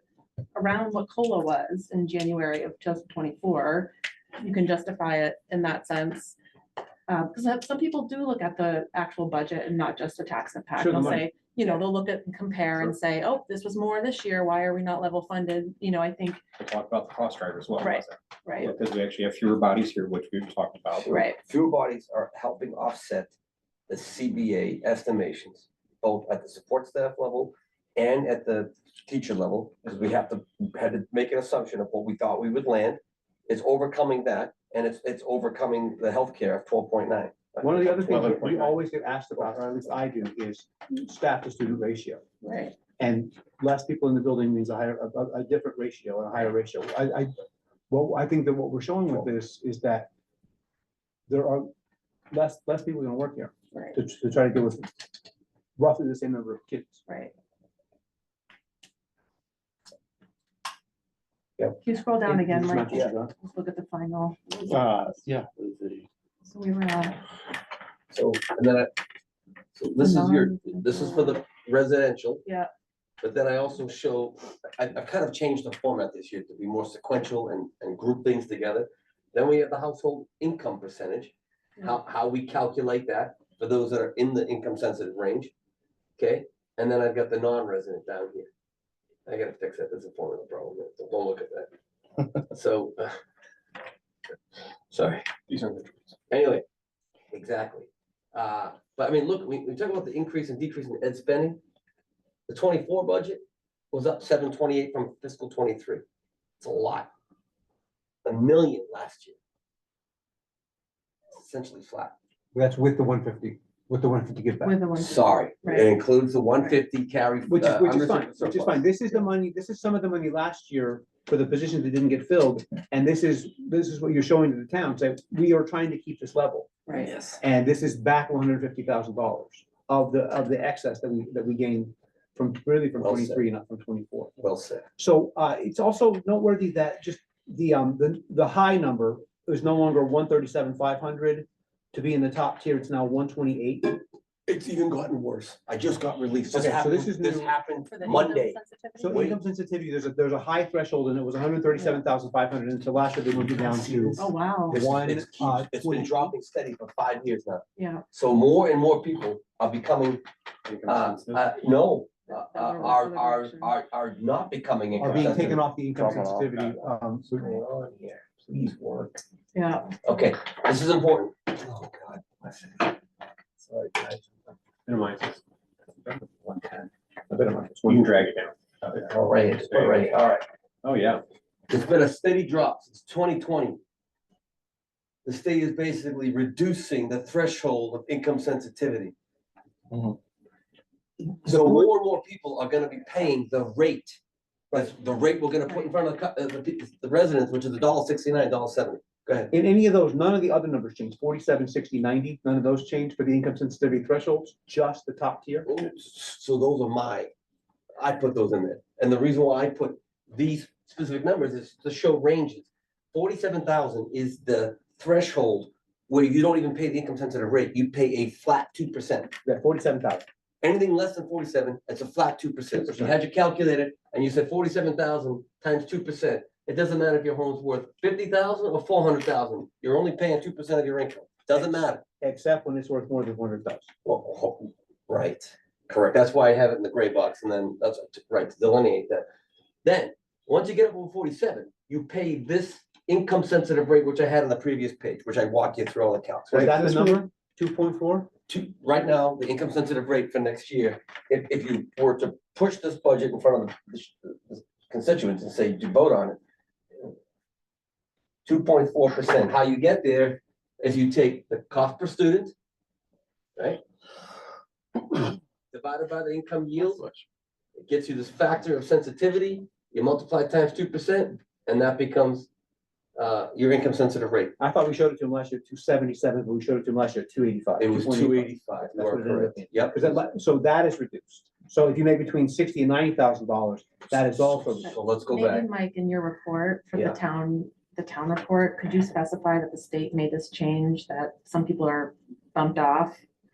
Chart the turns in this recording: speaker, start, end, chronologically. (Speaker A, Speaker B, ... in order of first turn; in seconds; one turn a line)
Speaker A: 0.5-6.4
Speaker A: 7.1-16.4
Speaker B: 10.8-11.2
Speaker C: 16.6-21.1
Speaker A: 17.8-18.7
Speaker D: 21.1-23.3
Speaker A: 21.1-21.4
Speaker D: 23.9-38.4
Speaker B: 37.6-42.2
Speaker C: 38.1-38.8
Speaker A: 42.4-42.8
Speaker B: 43.0-47.3
Speaker B: 47.9-50.1
Speaker B: 51.3-51.7
Speaker B: 52.3-54.9
Speaker B: 55.8-57.0
Speaker A: 57.1-57.3
Speaker A: 61.8-65.2
Speaker B: 62.2-63.3
Speaker C: 64.7-65.5
Speaker A: 66.4-67.2
Speaker D: 68.1-68.9
Speaker D: 69.8-72.4
Speaker A: 70.0-71.4
Speaker D: 73.2-85.5
Speaker D: 86.2-88.5
Speaker D: 89.2-91.7
Speaker D: 92.5-93.2
Speaker D: 94.9-95.4
Speaker C: 95.5-96.1
Speaker D: 96.3-96.6
Speaker D: 97.3-101.6
Speaker D: 102.5-106.0
Speaker D: 106.6-107.1
Speaker D: 108.2-109.3
Speaker D: 111.3-112.1
Speaker B: 112.5-114.7
Speaker A: 114.6-115.9
Speaker D: 115.0-118.9
Speaker B: 117.5-126.8
Speaker A: 126.9-127.1
Speaker D: 127.0-127.4
Speaker B: 127.4-134.3
Speaker D: 133.0-133.4
Speaker D: 134.4-134.9
Speaker B: 135.0-143.9
Speaker D: 144.5-149.4
Speaker B: 146.5-147.5
Speaker A: 147.9-149.3
Speaker B: 149.0-156.3
Speaker A: 151.7-152.0
Speaker D: 153.5-160.2
Speaker A: 154.2-154.8
Speaker A: 157.8-158.0
Speaker C: 160.7-161.4
Speaker D: 160.8-165.6
Speaker A: 162.3-163.7
Speaker B: 165.0-167.4
Speaker C: 165.2-166.8
Speaker D: 167.3-169.2
Speaker A: 169.5-169.9
Speaker D: 170.0-173.0
Speaker D: 173.6-174.5
Speaker C: 174.8-175.4
Speaker C: 176.0-176.8
Speaker B: 177.3-178.0
Speaker C: 177.7-180.1
Speaker D: 179.0-180.4
Speaker C: 180.8-181.2
Speaker D: 181.7-183.8
Speaker D: 185.2-189.1
Speaker C: 189.9-190.2
Speaker D: 191.4-194.2
Speaker D: 194.7-199.5
Speaker A: 195.7-196.0
Speaker B: 199.5-205.7
Speaker D: 205.7-207.3
Speaker D: 208.0-219.3
Speaker B: 219.4-220.2
Speaker D: 220.6-232.0
Speaker B: 232.2-233.9
Speaker D: 234.0-239.2
Speaker D: 239.8-247.2
Speaker B: 246.5-248.3
Speaker D: 248.5-256.4
Speaker D: 258.4-262.5
Speaker D: 263.6-263.8
Speaker D: 265.7-267.0
Speaker D: 267.8-272.5
Speaker D: 273.1-274.5
Speaker B: 274.6-284.9
Speaker D: 277.8-280.2
Speaker D: 284.1-285.7
Speaker A: 284.8-293.2